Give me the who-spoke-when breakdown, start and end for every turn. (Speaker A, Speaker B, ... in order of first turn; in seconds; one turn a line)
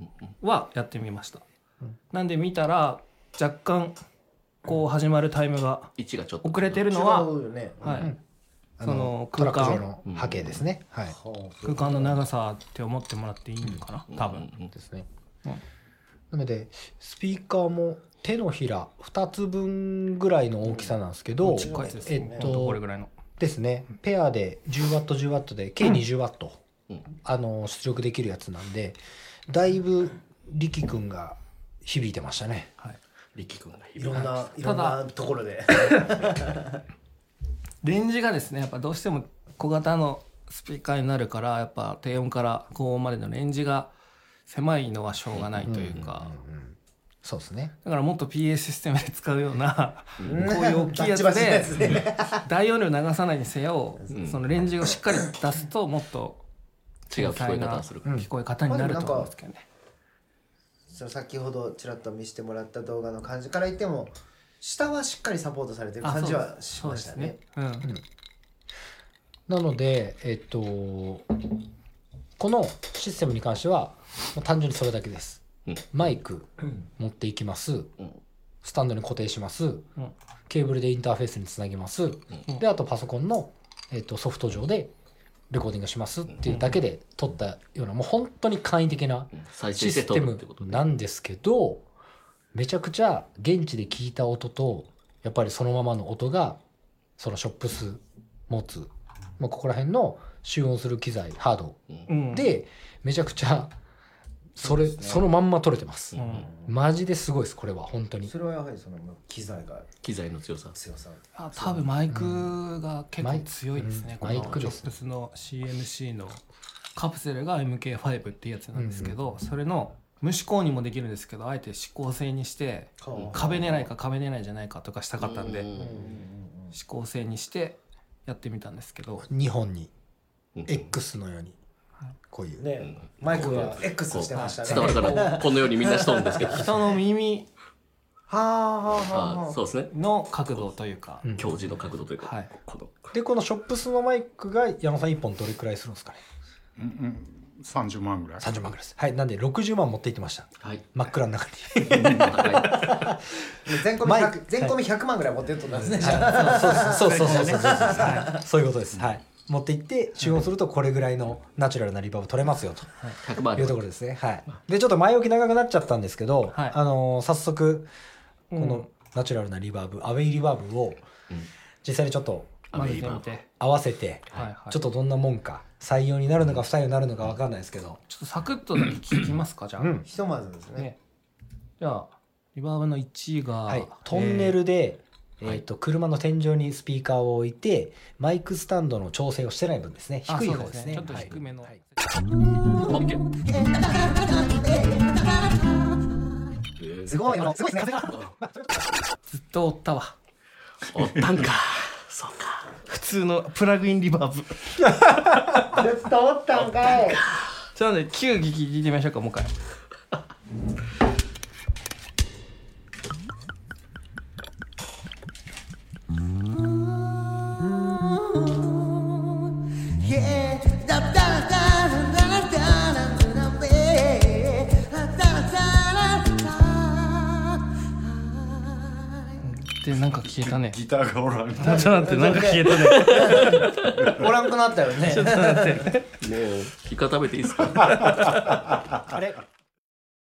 Speaker A: 0.4-1.4
Speaker A: 2.1-4.0
Speaker A: 4.7-8.1
Speaker B: 6.0-6.8
Speaker C: 6.9-8.1
Speaker D: 7.9-8.2
Speaker D: 8.8-11.2
Speaker A: 8.8-9.9
Speaker B: 10.1-10.6
Speaker C: 11.1-12.2
Speaker A: 11.6-14.5
Speaker B: 14.1-14.7
Speaker D: 14.7-15.1
Speaker D: 16.3-22.8
Speaker C: 20.6-22.5
Speaker A: 21.4-23.1
Speaker D: 23.4-26.6
Speaker D: 27.2-32.7
Speaker B: 33.4-34.4
Speaker C: 34.0-36.8
Speaker A: 34.1-35.0
Speaker A: 37.8-43.9
Speaker A: 44.5-46.4
Speaker B: 45.4-46.1
Speaker D: 45.6-47.7
Speaker A: 47.8-56.4
Speaker C: 50.2-52.4
Speaker B: 54.1-54.4
Speaker B: 57.1-58.1
Speaker A: 57.1-59.6
Speaker C: 58.7-59.3
Speaker C: 60.9-67.4
Speaker A: 66.0-67.9
Speaker D: 69.5-71.3
Speaker D: 72.4-78.0
Speaker D: 78.6-79.9
Speaker D: 80.5-84.9
Speaker D: 85.5-91.9
Speaker A: 86.5-86.8
Speaker B: 89.3-90.8
Speaker D: 92.5-96.6
Speaker D: 97.2-103.8
Speaker A: 102.1-102.5
Speaker D: 104.6-108.3
Speaker C: 104.6-105.3
Speaker B: 106.1-106.5
Speaker A: 106.2-106.5
Speaker C: 106.3-106.7
Speaker C: 108.2-109.9
Speaker B: 110.0-110.8
Speaker C: 110.8-112.0
Speaker A: 111.3-116.4
Speaker D: 112.1-112.6
Speaker D: 113.2-114.9
Speaker C: 114.3-114.6
Speaker A: 117.0-125.7
Speaker D: 118.7-119.2
Speaker C: 123.0-123.6
Speaker B: 123.1-123.8
Speaker B: 125.2-126.0
Speaker C: 125.8-126.8
Speaker A: 126.7-129.3
Speaker D: 129.2-129.9
Speaker B: 130.6-130.9
Speaker D: 130.7-131.6
Speaker D: 132.3-133.6
Speaker C: 132.6-136.5
Speaker B: 132.8-136.7
Speaker A: 133.3-133.8
Speaker A: 134.3-135.3
Speaker D: 134.6-135.2
Speaker A: 136.4-137.5
Speaker C: 138.3-139.6
Speaker B: 139.1-139.9
Speaker A: 139.9-141.3
Speaker B: 141.3-143.1
Speaker A: 142.2-142.5
Speaker D: 143.1-146.2
Speaker E: 146.8-148.5
Speaker D: 148.4-153.2
Speaker E: 151.9-152.3
Speaker B: 152.1-152.8
Speaker C: 153.7-158.4
Speaker D: 154.0-154.8
Speaker D: 155.9-167.9
Speaker A: 156.0-158.4
Speaker A: 160.2-160.4
Speaker B: 163.2-163.8
Speaker A: 166.5-166.8
Speaker A: 168.5-168.9
Speaker D: 168.6-171.1
Speaker D: 171.8-173.0
Speaker B: 172.7-173.3
Speaker A: 172.7-173.5
Speaker D: 173.6-178.0
Speaker A: 174.3-174.8
Speaker A: 178.1-180.0
Speaker D: 179.8-180.1
Speaker C: 180.1-180.9
Speaker A: 181.8-184.6
Speaker D: 183.7-191.8
Speaker A: 190.3-191.9
Speaker B: 192.8-193.2
Speaker C: 193.2-196.1
Speaker B: 196.8-197.3
Speaker C: 197.1-198.0
Speaker D: 197.2-198.9
Speaker A: 199.3-200.2
Speaker B: 200.8-202.8
Speaker A: 202.9-205.3
Speaker C: 205.7-207.2
Speaker A: 207.7-209.5
Speaker C: 216.8-229.3
Speaker A: 229.4-230.8
Speaker E: 230.4-232.6
Speaker A: 231.6-233.7
Speaker C: 231.6-235.8
Speaker B: 233.1-233.7
Speaker A: 235.1-236.1
Speaker B: 236.2-238.3
Speaker A: 237.9-238.3